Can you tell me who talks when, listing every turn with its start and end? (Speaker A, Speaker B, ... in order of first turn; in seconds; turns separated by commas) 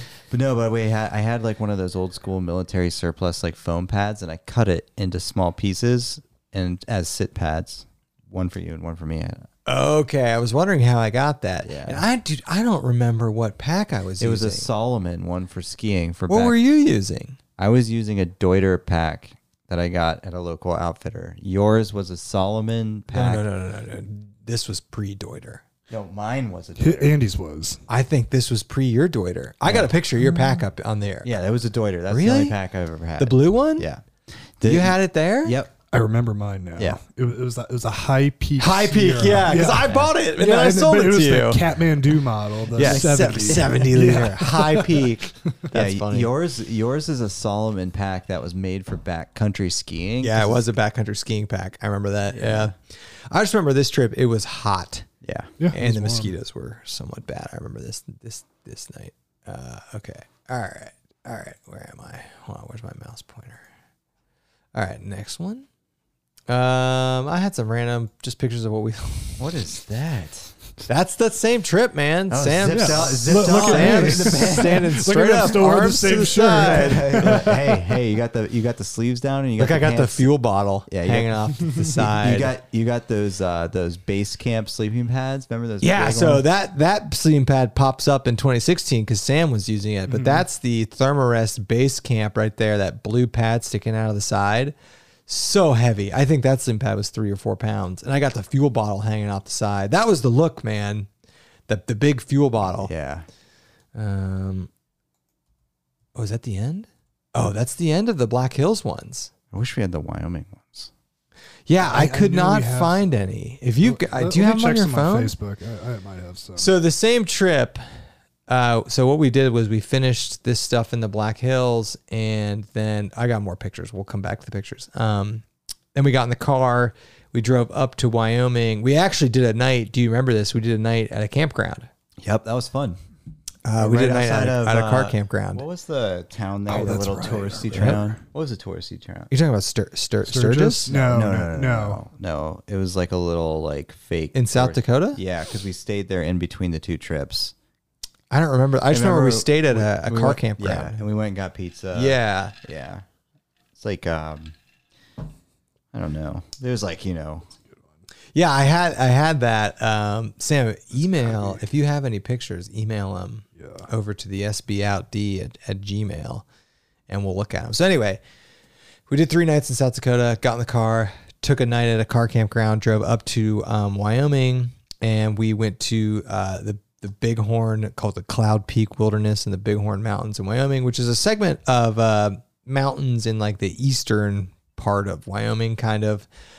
Speaker A: 0.3-9.5, Speaker B: 9.7-14.7, Speaker A: 11.6-12.0, Speaker A: 14.2-16.6, Speaker B: 16.3-17.4, Speaker A: 17.6-23.4, Speaker B: 23.1-25.6, Speaker A: 25.9-27.1, Speaker C: 26.8-27.8, Speaker B: 27.9-31.3, Speaker A: 29.6-29.9, Speaker A: 31.2-35.7, Speaker B: 32.1-32.5, Speaker B: 33.2-33.9, Speaker B: 34.6-35.6, Speaker C: 35.9-45.5, Speaker B: 38.6-41.7, Speaker B: 42.7-46.3, Speaker A: 42.8-43.8, Speaker A: 45.7-50.7, Speaker B: 50.2-52.7, Speaker A: 52.3-52.7, Speaker B: 53.3-55.1, Speaker A: 55.2-55.5, Speaker C: 55.6-56.3, Speaker B: 55.7-63.6, Speaker B: 64.7-65.7, Speaker B: 66.5-69.4, Speaker A: 69.4-70.5, Speaker B: 70.9-77.5, Speaker A: 72.3-74.9, Speaker C: 72.7-77.7, Speaker A: 75.8-80.3, Speaker B: 79.6-82.5, Speaker A: 80.9-86.4, Speaker B: 85.8-94.7, Speaker C: 90.1-90.4, Speaker B: 95.3-101.1, Speaker B: 101.7-102.9, Speaker A: 102.7-103.2, Speaker B: 103.9-104.7, Speaker B: 106.1-109.3, Speaker A: 109.5-110.9, Speaker B: 111.7-115.3, Speaker C: 111.8-113.2, Speaker C: 113.8-116.7, Speaker B: 116.6-117.8, Speaker B: 118.5-131.9, Speaker A: 132.2-133.0, Speaker B: 133.6-135.6, Speaker A: 133.8-139.3, Speaker C: 136.7-138.2, Speaker B: 139.3-140.9, Speaker C: 140.2-142.0, Speaker A: 140.9-147.5, Speaker B: 144.3-145.2, Speaker B: 148.3-151.0, Speaker A: 148.9-153.0, Speaker B: 151.9-152.5, Speaker A: 153.8-154.6, Speaker A: 155.9-157.5, Speaker B: 158.3-166.4, Speaker C: 161.1-161.6, Speaker C: 163.6-163.9, Speaker B: 167.1-168.2, Speaker B: 169.1-186.3